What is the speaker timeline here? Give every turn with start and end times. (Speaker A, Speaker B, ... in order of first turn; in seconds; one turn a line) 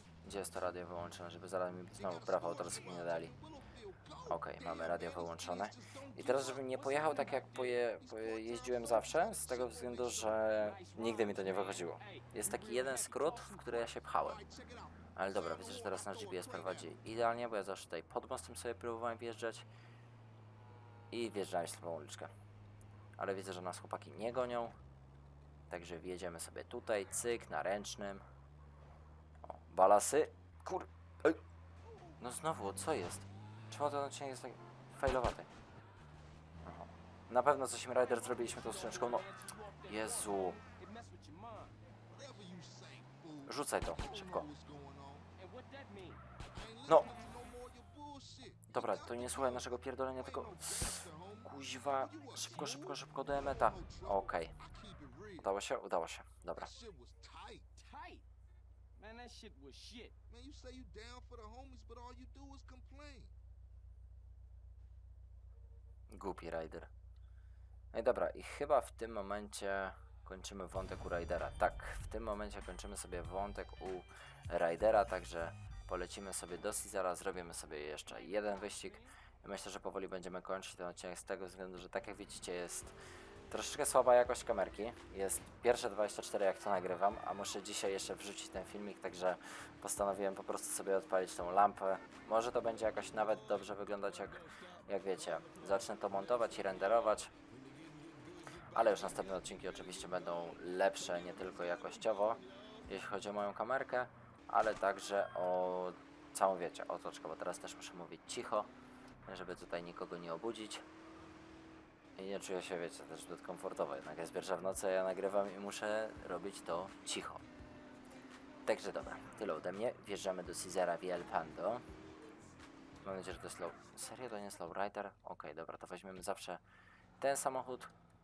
Speaker A: 0.2-3.3
Speaker B: 1.9-7.5
Speaker A: 4.3-14.4
Speaker C: 7.3-7.8
Speaker B: 8.0-10.5
Speaker C: 10.6-13.9
Speaker B: 14.2-16.9
Speaker A: 15.2-19.7
Speaker A: 21.1-22.3
Speaker A: 23.2-24.8
Speaker A: 25.7-28.2
Speaker A: 29.4-31.4
Speaker A: 32.2-35.5
Speaker A: 36.6-39.3
Speaker C: 38.0-41.8
Speaker A: 39.9-40.6
Speaker B: 42.1-45.3
Speaker A: 43.5-44.5
Speaker C: 45.4-46.2
Speaker B: 46.5-55.5
Speaker A: 48.7-54.5
Speaker A: 55.4-56.7
Speaker B: 56.5-57.7
Speaker C: 57.8-58.3
Speaker C: 59.0-60.2
Speaker B: 60.3-63.3
Speaker A: 66.1-66.9
Speaker A: 67.9-83.0
Speaker C: 78.1-79.2
Speaker A: 83.5-97.3
Speaker B: 97.5-99.6
Speaker A: 98.7-108.7
Speaker A: 109.3-110.8
Speaker A: 112.2-117.4
Speaker A: 118.7-121.9
Speaker A: 123.0-126.6
Speaker A: 127.2-127.9